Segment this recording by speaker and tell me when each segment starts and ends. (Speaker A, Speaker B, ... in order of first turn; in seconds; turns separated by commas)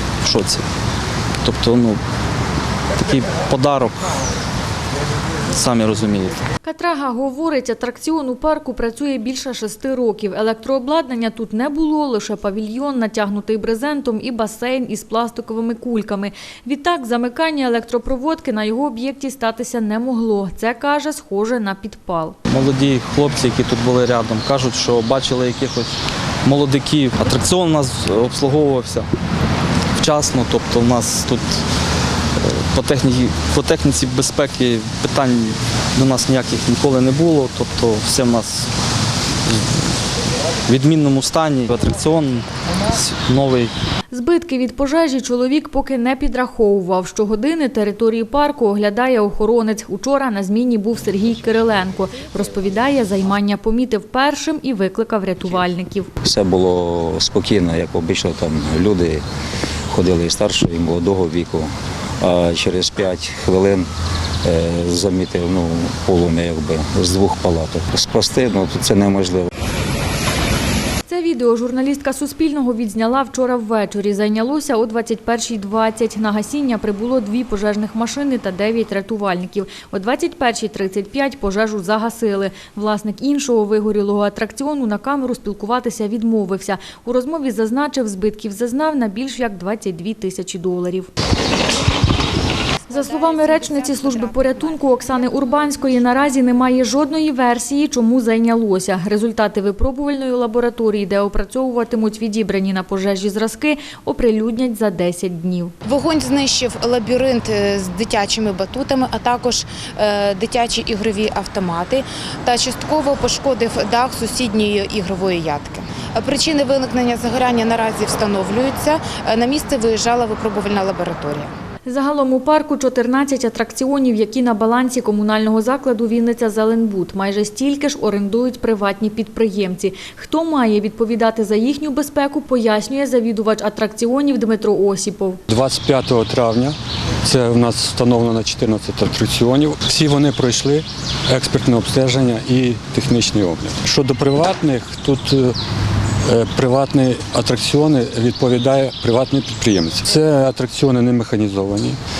Speaker A: 0.2-0.7, Speaker A: 1.4-2.0, Speaker A: 2.9-4.0, Speaker A: 5.5-6.5, Speaker B: 6.6-22.4, Speaker A: 22.5-29.1, Speaker A: 30.0-31.6, Speaker A: 32.4-38.7, Speaker A: 40.7-43.7, Speaker B: 44.1-56.1, Speaker C: 56.2-59.2, Speaker C: 59.9-61.7, Speaker C: 62.2-63.9, Speaker C: 64.4-69.5, Speaker B: 71.1-91.1, Speaker D: 92.8-96.8, Speaker B: 92.9-105.7, Speaker D: 105.8-121.5, Speaker B: 121.8-135.4, Speaker E: 135.5-145.5, Speaker E: 146.2-152.0